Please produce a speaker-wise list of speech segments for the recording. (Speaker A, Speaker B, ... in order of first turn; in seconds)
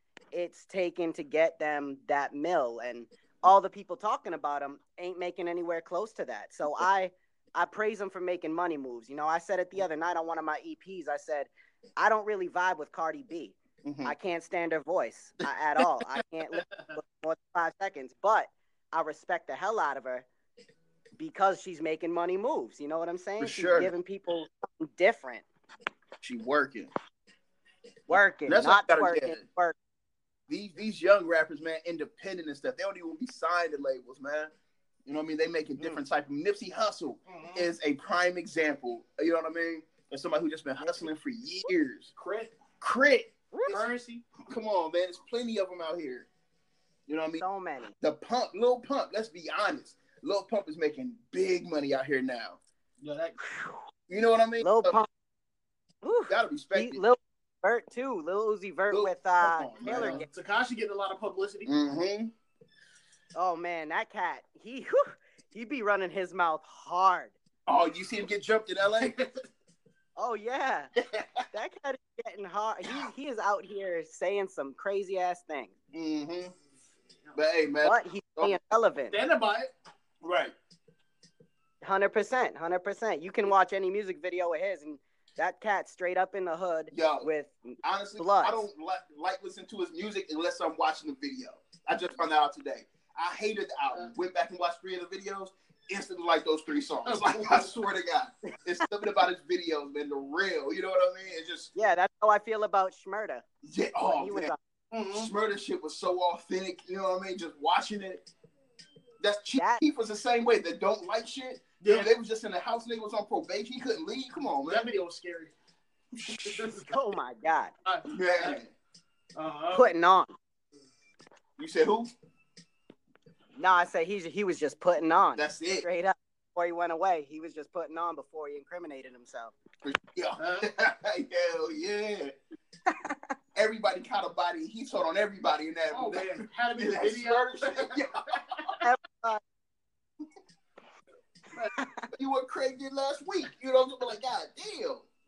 Speaker A: 0.3-20.2, 21.2-25.4, 28.1-29.8, 43.5-43.9, 47.4-47.9, 53.5-53.8, 54.6-55.1, 56.0-60.3, 63.3-67.3, 70.2-70.9, 71.5-75.7, 77.8-79.2, 81.8-88.6, 101.7-103.4, 104.1-104.6, 109.6-109.8, 116.9-117.7, 119.7-120.3, 123.6-129.5, 132.9-133.1, 138.8-139.4, 141.8-142.1
Speaker B: 13.8-14.1, 23.4-23.9, 26.2-26.9, 28.4-29.4, 30.5-34.5, 35.0-42.1, 42.8-43.3, 44.5-46.3, 47.1-47.4, 48.0-52.6, 54.1-55.0, 56.3-57.0, 58.9-60.2, 61.6-62.3, 67.7-69.1, 71.2-71.4, 75.9-76.5, 77.3-78.6, 80.2-80.5, 86.9-87.3, 87.8-101.7, 103.6-104.5, 105.1-108.2, 109.2-114.9, 116.1-116.6, 118.0-118.7, 121.6-122.1, 125.4-125.8, 129.8-132.3, 133.5-138.7, 142.1-145.0
Speaker C: 37.3-37.7, 42.1-42.5, 43.7-44.2, 53.0-53.4, 59.8-61.7, 69.0-69.3, 79.1-79.7, 97.0-97.7, 104.9-105.3, 111.8-112.1, 114.6-115.5, 116.4-116.9, 117.8-118.5, 119.3-119.9, 130.4-130.7, 135.9-138.0